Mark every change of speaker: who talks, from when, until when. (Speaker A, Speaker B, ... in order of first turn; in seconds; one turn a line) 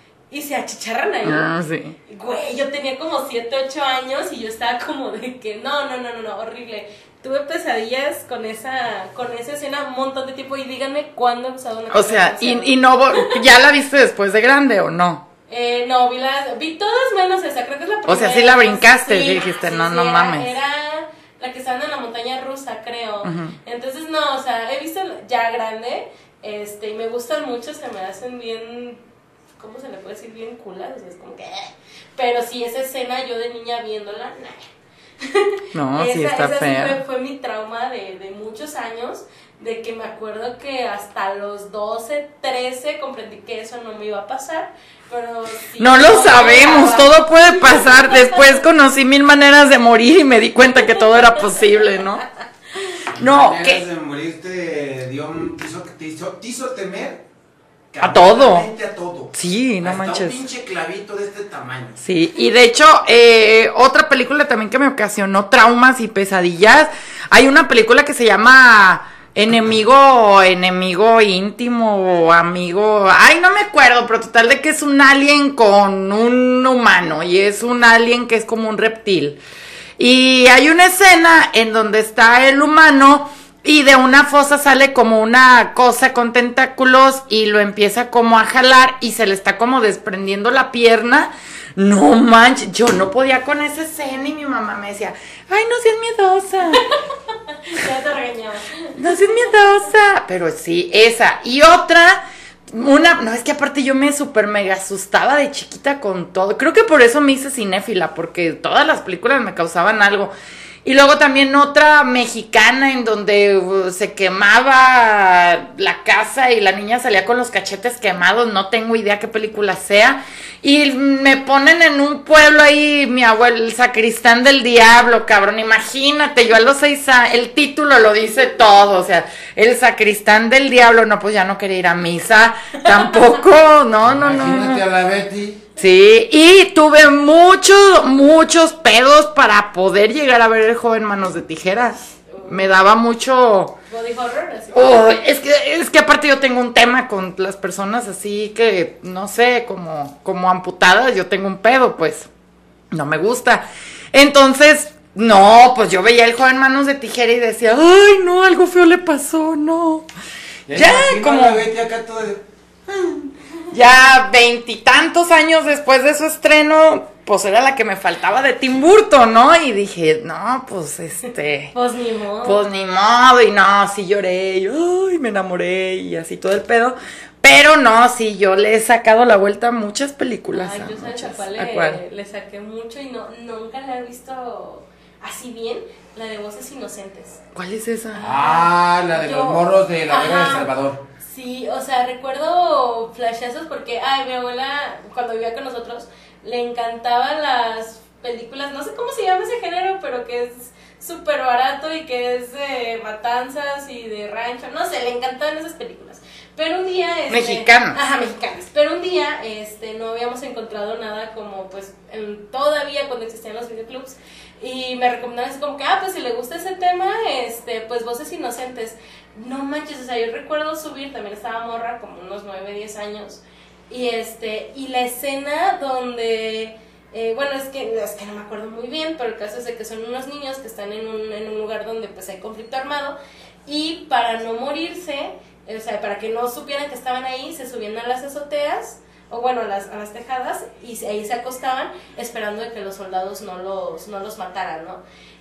Speaker A: 0.3-1.5
Speaker B: 1.2-2.0
Speaker A: 2.1-13.4
Speaker B: 11.9-15.3
Speaker A: 15.5-29.0
Speaker B: 18.1-20.5
Speaker B: 23.2-23.6
Speaker A: 29.6-34.7
Speaker A: 35.2-48.6
Speaker B: 35.7-37.0
Speaker B: 45.8-52.2
Speaker B: 53.1-53.9
Speaker C: 53.2-57.2
Speaker C: 57.9-62.0
Speaker B: 58.0-58.7
Speaker B: 59.3-60.4
Speaker B: 62.0-79.4
Speaker B: 80.0-96.8
Speaker A: 96.7-97.0
Speaker A: 97.5-99.5
Speaker B: 99.0-110.3
Speaker B: 110.8-134.8
Speaker C: 134.1-135.7
Speaker B: 135.8-143.8
Speaker A: 142.3-142.7
Speaker A: 143.9-145.1
Speaker B: 144.7-152.3
Speaker B: 152.9-160.1
Speaker C: 160.7-163.3
Speaker B: 160.7-161.7
Speaker B: 163.7-171.7
Speaker A: 171.7-172.7
Speaker B: 172.4-182.0
Speaker A: 180.5-187.4
Speaker B: 187.5-188.2
Speaker A: 188.1-190.7
Speaker C: 188.2-191.0
Speaker A: 191.2-245.0
Speaker B: 207.3-208.0